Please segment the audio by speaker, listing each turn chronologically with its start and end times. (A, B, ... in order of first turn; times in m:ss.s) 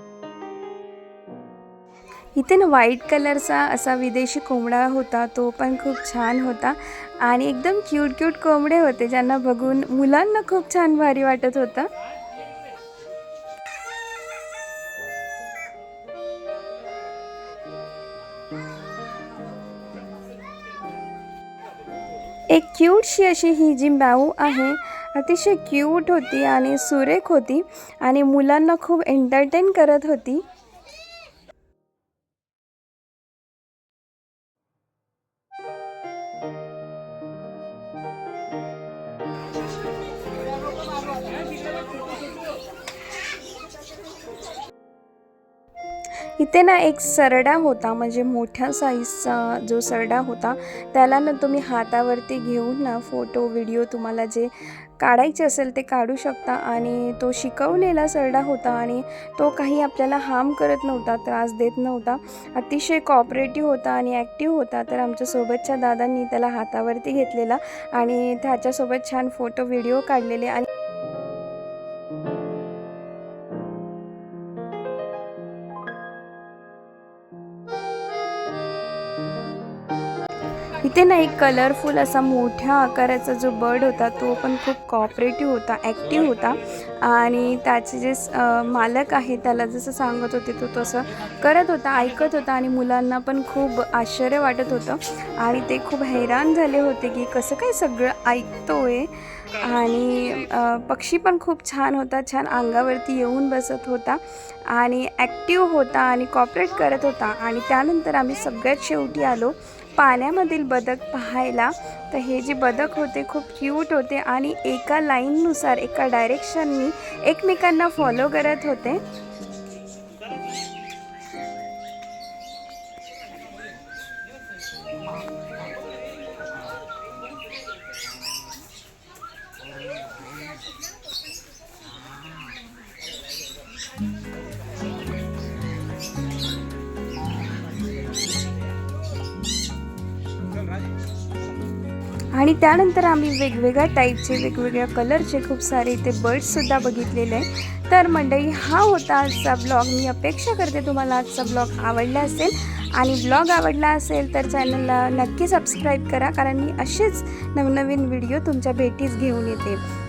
0:02.3-0:11.9 A
0:22.5-0:30.4 A
0:46.4-1:10.7 A
1:20.7-1:59.0 A
2:22.3-2:39.8 A